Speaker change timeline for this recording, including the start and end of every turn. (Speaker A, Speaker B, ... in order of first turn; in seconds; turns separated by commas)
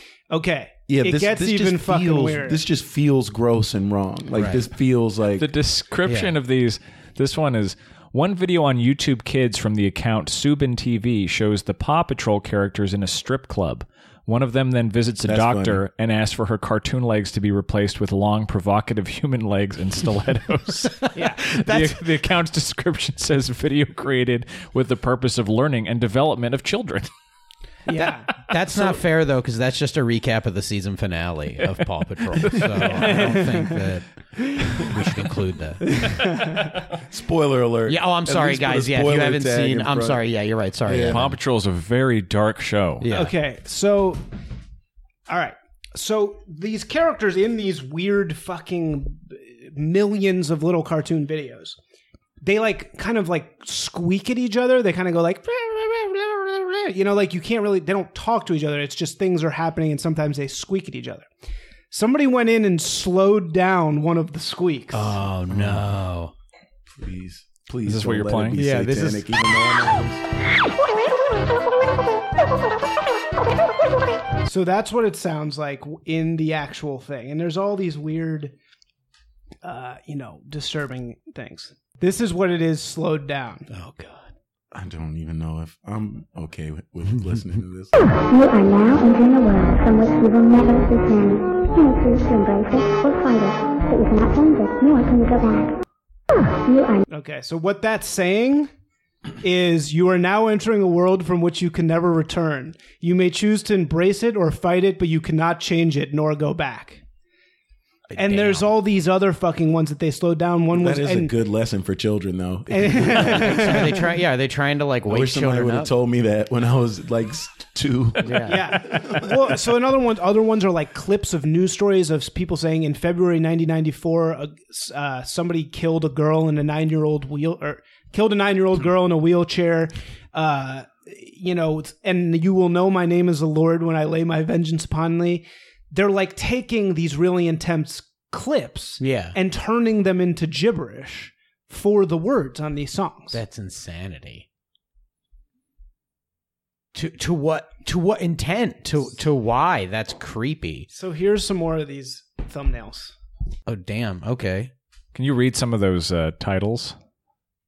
Speaker A: 0.3-2.6, Speaker B: 0.9-5.5, Speaker C: 4.3-4.6, Speaker D: 5.4-27.1, Speaker C: 6.1-6.3, Speaker B: 15.2-15.8, Speaker A: 21.1-21.4, Speaker C: 21.2-22.0, Speaker A: 27.9-28.3, Speaker C: 27.9-35.8, Speaker D: 32.4-33.1, Speaker A: 32.9-33.9, Speaker A: 35.9-36.9, Speaker B: 36.9-40.2, Speaker C: 37.9-41.3, Speaker B: 40.9-41.4, Speaker D: 41.1-43.1, Speaker C: 43.0-43.4, Speaker A: 43.1-44.2, Speaker A: 45.3-51.8, Speaker A: 52.4-61.3, Speaker A: 61.9-65.2, Speaker C: 64.9-66.3, Speaker B: 65.5-65.9, Speaker B: 66.9-70.2, Speaker D: 67.8-68.6, Speaker C: 68.6-69.3, Speaker A: 74.4-78.5, Speaker A: 79.6-83.7, Speaker C: 83.7-84.3, Speaker B: 84.7-88.0, Speaker E: 88.3-95.8, Speaker E: 96.5-97.0, Speaker A: 97.1-98.7, Speaker A: 99.4-107.0, Speaker C: 108.1-108.7, Speaker A: 108.2-111.3, Speaker B: 110.7-114.0, Speaker A: 112.7-114.0, Speaker C: 113.1-115.9, Speaker B: 115.1-119.7, Speaker C: 118.2-118.7, Speaker A: 118.5-143.4, Speaker C: 139.0-139.4, Speaker C: 143.3-144.5, Speaker C: 146.9-150.9, Speaker A: 150.9-153.1, Speaker C: 153.7-154.7, Speaker D: 155.1-157.0